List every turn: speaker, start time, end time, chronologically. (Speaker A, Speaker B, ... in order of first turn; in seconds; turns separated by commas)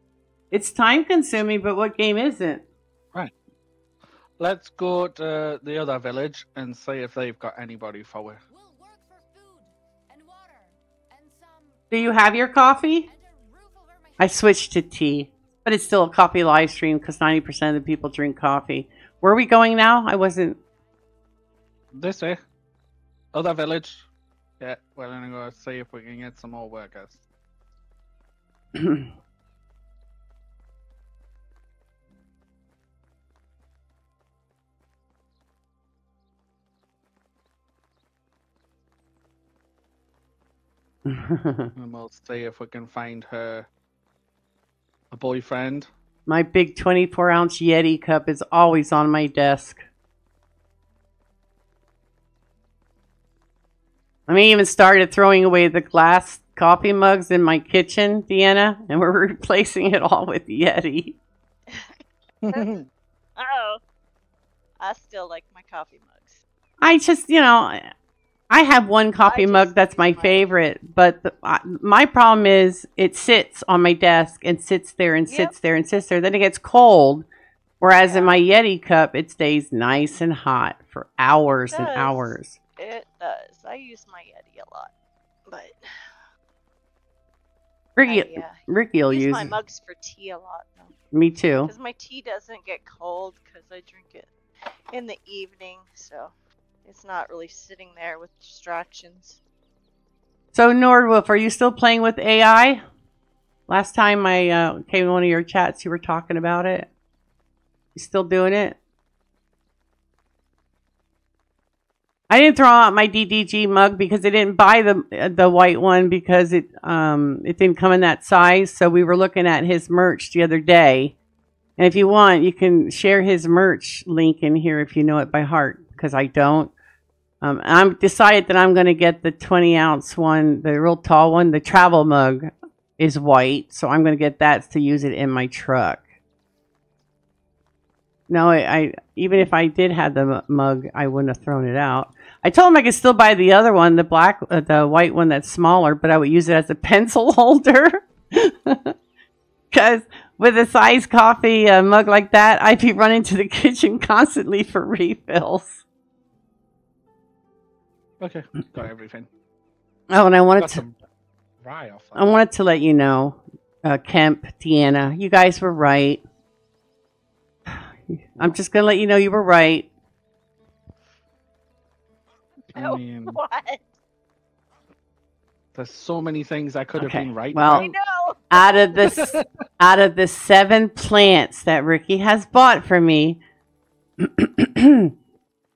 Speaker A: 0.5-2.6, Speaker B: 4.4-8.4, Speaker C: 8.5-16.4, Speaker A: 11.9-13.1, Speaker A: 14.2-20.6, Speaker C: 20.1-20.8, Speaker B: 21.9-22.4, Speaker B: 23.3-24.1, Speaker B: 24.6-27.2, Speaker A: 41.1-41.7, Speaker B: 41.8-43.7, Speaker B: 45.1-45.9, Speaker A: 46.3-49.8, Speaker A: 54.3-61.1, Speaker D: 61.7-61.9, Speaker B: 62.4-62.9, Speaker D: 63.4-63.8, Speaker D: 64.8-66.4, Speaker A: 66.8-67.9, Speaker A: 68.5-77.2, Speaker D: 69.2-70.6, Speaker D: 75.3-75.5, Speaker A: 77.8-82.6, Speaker D: 78.0-78.4, Speaker D: 81.7-84.9, Speaker D: 85.5-86.1, Speaker A: 88.0-89.5, Speaker D: 88.0-90.9, Speaker A: 91.1-91.7, Speaker D: 91.6-94.3, Speaker D: 94.9-96.3, Speaker D: 96.8-99.4, Speaker A: 100.5-102.8, Speaker A: 103.7-106.9, Speaker A: 108.0-108.8, Speaker A: 112.3-121.1, Speaker A: 121.8-126.7, Speaker A: 127.4-136.1, Speaker A: 138.3-148.9, Speaker A: 149.7-155.8, Speaker B: 158.2-159.3, Speaker A: 160.1-160.8, Speaker B: 160.6-161.0, Speaker B: 161.6-162.3, Speaker A: 162.2-166.2, Speaker A: 167.7-169.9, Speaker B: 172.7-173.4, Speaker D: 172.8-173.8, Speaker B: 175.7-177.9, Speaker A: 176.9-177.9, Speaker D: 177.7-179.2, Speaker A: 178.5-183.4, Speaker B: 179.0-179.5, Speaker A: 184.2-185.1